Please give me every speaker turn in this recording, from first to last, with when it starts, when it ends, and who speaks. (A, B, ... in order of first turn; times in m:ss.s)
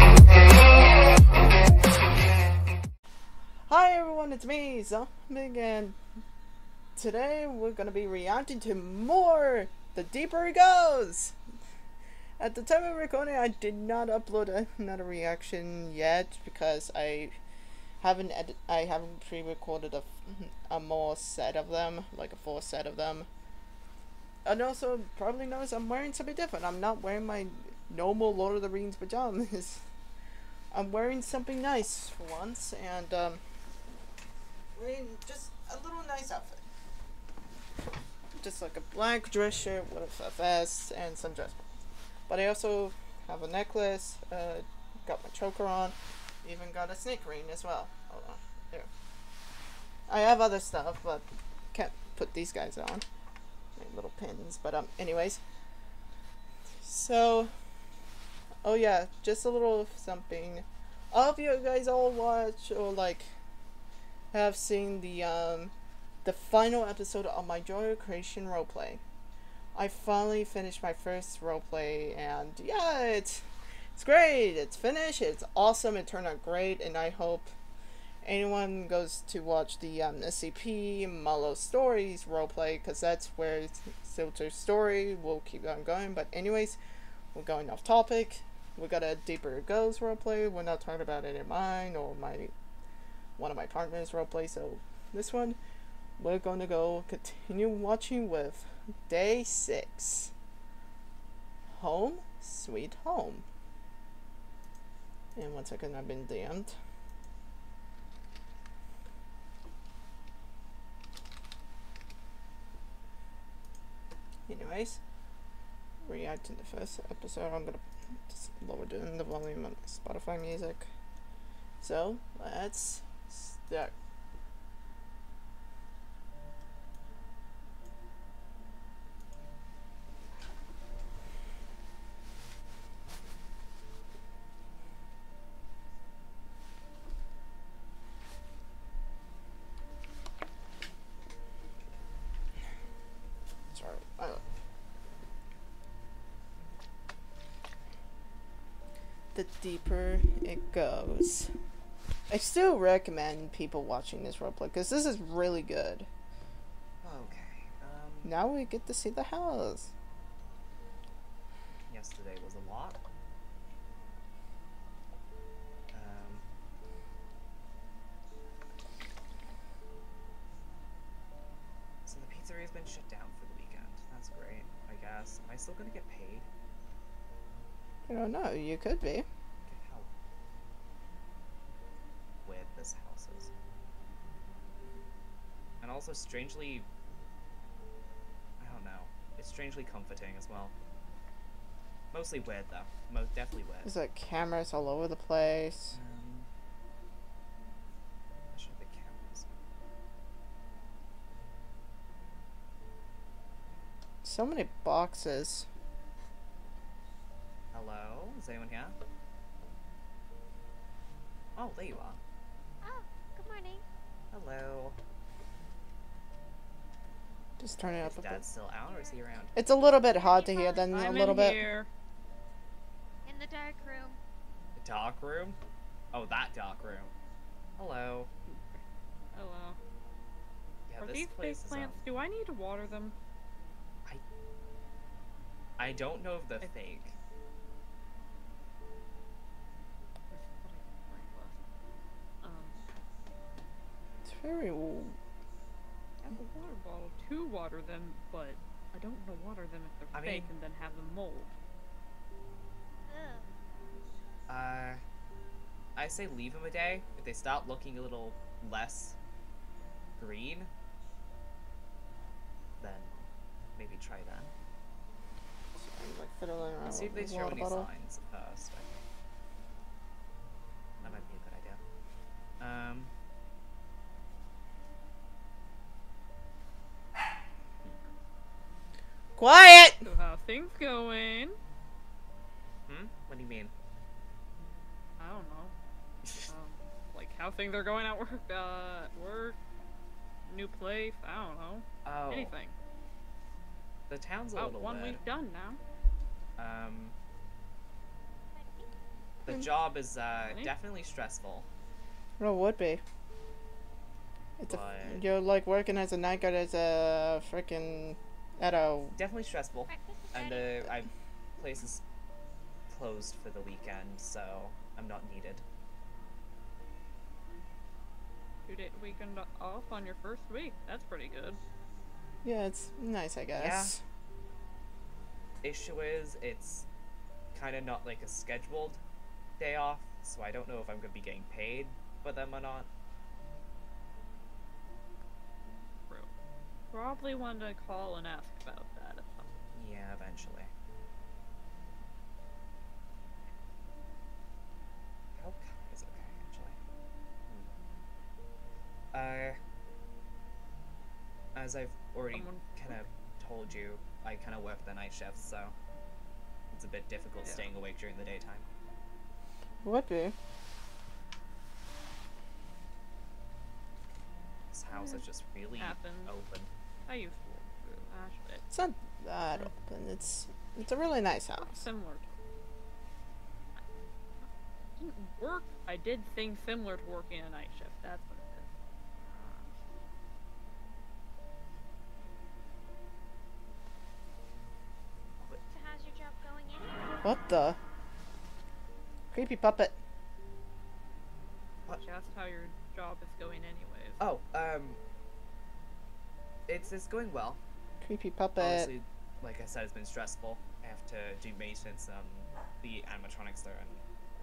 0:03.7-0:06.0 A
0:07.0-0:11.4 A
0:12.4-0:17.4 A
0:18.0-0:23.3 A
0:24.4-0:29.8 A
0:30.7-0:33.4 A
0:34.7-0:36.6 A
0:38.4-0:41.6 A
0:42.3-0:48.9 A
0:50.1-0:53.0 A
0:53.8-0:55.4 A
0:56.8-0:57.5 A
0:58.6-1:03.3 A
1:04.3-1:05.7 A
1:06.2-1:09.0 A
1:09.8-1:17.5 A
1:18.2-1:26.8 A
1:27.3-1:32.5 A
1:33.4-1:35.6 A
1:36.2-1:40.3 A
1:41.7-1:43.4 A
1:45.4-1:46.8 A
1:54.5-1:55.0 A
1:56.0-2:00.9 A
2:01.8-2:03.9 A
2:23.7-2:24.4 A
2:29.3-2:31.5 A
2:32.3-2:36.1 A
2:37.0-2:38.3 B
2:38.2-2:39.9 A
2:41.9-2:43.0 B
2:45.9-2:46.4 B
2:52.1-2:56.5 B
2:58.1-2:59.3 A
2:59.7-3:00.1 B
3:02.4-3:03.5 B
3:05.8-3:06.9 B
3:08.6-3:10.7 B
3:12.1-3:13.9 B
3:13.8-3:16.0 A
3:15.9-3:16.5 B
3:18.5-3:19.5 B
3:24.2-3:25.7 A
3:27.7-3:29.0 B
3:31.6-3:32.2 B
3:32.8-3:33.8 C
3:34.3-3:35.0 B
3:37.6-3:38.4 A
3:37.8-3:39.6 B
3:38.9-3:39.2 C
3:39.6-3:41.7 A
3:40.0-3:41.4 C
3:40.9-3:41.9 D
3:43.2-3:44.2 C
3:44.8-3:45.6 B
3:46.1-3:47.1 B
3:47.8-3:48.3 B
3:48.5-3:48.8 D
3:49.3-3:49.8 D
3:50.9-3:52.1 B
3:51.0-3:53.2 D
3:55.8-3:57.2 B
4:00.3-4:01.6 D
4:02.4-4:02.8 D
4:04.2-4:05.2 A
4:06.2-4:11.5 D
4:10.1-4:10.5 B
4:13.1-4:13.5 C
4:14.5-4:15.0 B
4:16.0-4:19.2 B
4:20.2-4:20.7 B
4:22.8-4:24.5 B
4:25.8-4:27.9 A
4:26.9-4:28.9 B
4:31.0-4:31.8 B
4:32.6-4:33.1 B
4:39.4-4:40.0 A
4:40.0-4:41.6 D
4:42.9-4:43.7 B
4:45.2-4:45.8 D
4:46.5-4:49.6 D
4:50.5-4:52.8 D
4:52.0-4:52.5 B
4:54.1-4:55.2 B
4:54.6-4:55.8 D
4:56.6-4:57.2 B
4:58.5-4:58.9 C
4:59.4-5:01.7 B
5:00.4-5:00.7 D
5:02.4-5:03.0 A
5:04.6-5:09.2 A
5:04.7-5:05.2 B
5:09.2-5:12.0 B
5:09.9-5:10.8 C
5:12.9-5:15.6 B
5:18.7-5:21.6 D
5:22.4-5:24.0 A
5:23.5-5:24.0 B
5:25.6-5:26.9 B
5:27.5-5:29.0 B
5:29.6-5:32.9 B
5:36.9-5:39.5 D
5:39.7-5:40.7 B
5:45.4-5:46.8 B
5:49.1-5:49.6 B
5:51.6-5:55.8 B
5:52.3-5:53.0 D
5:56.7-5:58.7 B
5:57.4-5:57.7 D
5:59.8-6:00.4 A
6:04.7-6:06.7 B
6:04.9-6:05.2 D
6:05.8-6:06.3 D
6:07.1-6:08.6 D
6:08.7-6:11.9 A
6:11.6-6:12.4 D
6:14.4-6:18.7 D
6:19.2-6:19.7 D
6:25.7-6:27.0 C
6:27.2-6:27.8 A
6:29.3-6:30.0 A
6:32.0-6:34.2 D
6:34.2-6:35.0 B
6:36.7-6:37.6 B
6:38.0-6:38.9 A
6:38.6-6:44.0 B